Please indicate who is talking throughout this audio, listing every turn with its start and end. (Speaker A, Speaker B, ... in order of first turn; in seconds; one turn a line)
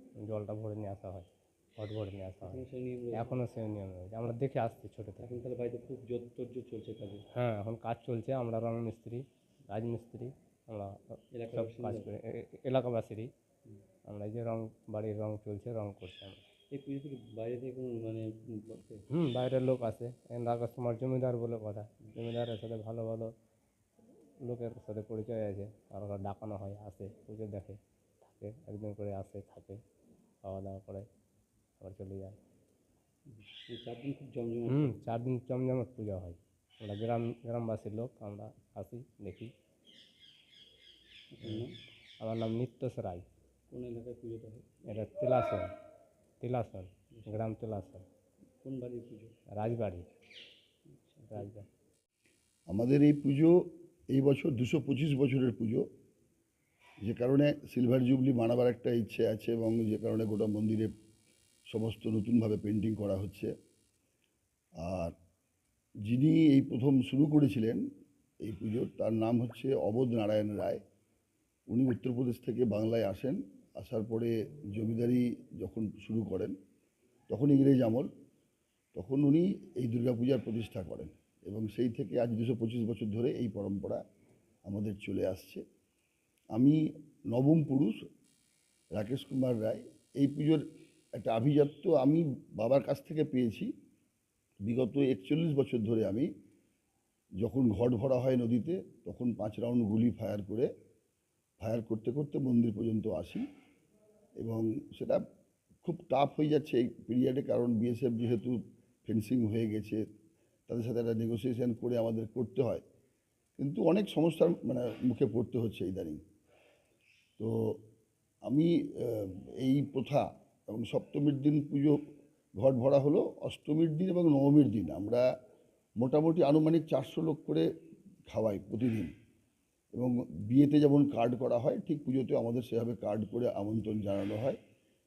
Speaker A: 0.2-2.6
Speaker B: 2.4-3.4
Speaker A: 3.1-5.3
Speaker B: 5.2-7.2
Speaker A: 7.3-11.0
Speaker B: 11.3-12.1
Speaker A: 11.5-13.3
Speaker A: 14.1-16.4
Speaker B: 16.7-19.0
Speaker A: 19.1-23.3
Speaker A: 24.4-29.8
Speaker A: 30.4-31.1
Speaker A: 31.8-32.4
Speaker B: 33.3-35.0
Speaker A: 34.7-39.5
Speaker B: 41.3-41.8
Speaker A: 42.2-43.2
Speaker B: 43.7-44.7
Speaker A: 44.9-45.7
Speaker A: 46.4-48.0
Speaker B: 47.1-47.4
Speaker B: 48.6-49.3
Speaker A: 49.5-50.0
Speaker B: 50.9-51.5
Speaker A: 51.3-51.6
Speaker C: 52.7-53.6
Speaker C: 54.1-55.8
Speaker C: 57.0-60.9
Speaker C: 61.7-63.5
Speaker C: 64.8-65.1
Speaker C: 66.0-67.8
Speaker C: 68.4-70.8
Speaker C: 71.7-76.5
Speaker C: 77.3-78.1
Speaker C: 78.9-84.0
Speaker C: 84.7-85.6
Speaker C: 86.5-86.8
Speaker C: 87.3-88.0
Speaker C: 89.0-90.6
Speaker C: 91.2-93.7
Speaker C: 94.7-96.3
Speaker C: 97.4-100.7
Speaker C: 101.6-103.4
Speaker C: 104.4-105.2
Speaker C: 105.8-110.0
Speaker C: 110.7-112.8
Speaker C: 113.6-116.2
Speaker C: 117.4-117.8
Speaker C: 118.5-122.0
Speaker C: 122.6-125.2
Speaker C: 126.0-127.7
Speaker C: 128.3-129.1
Speaker C: 129.9-134.6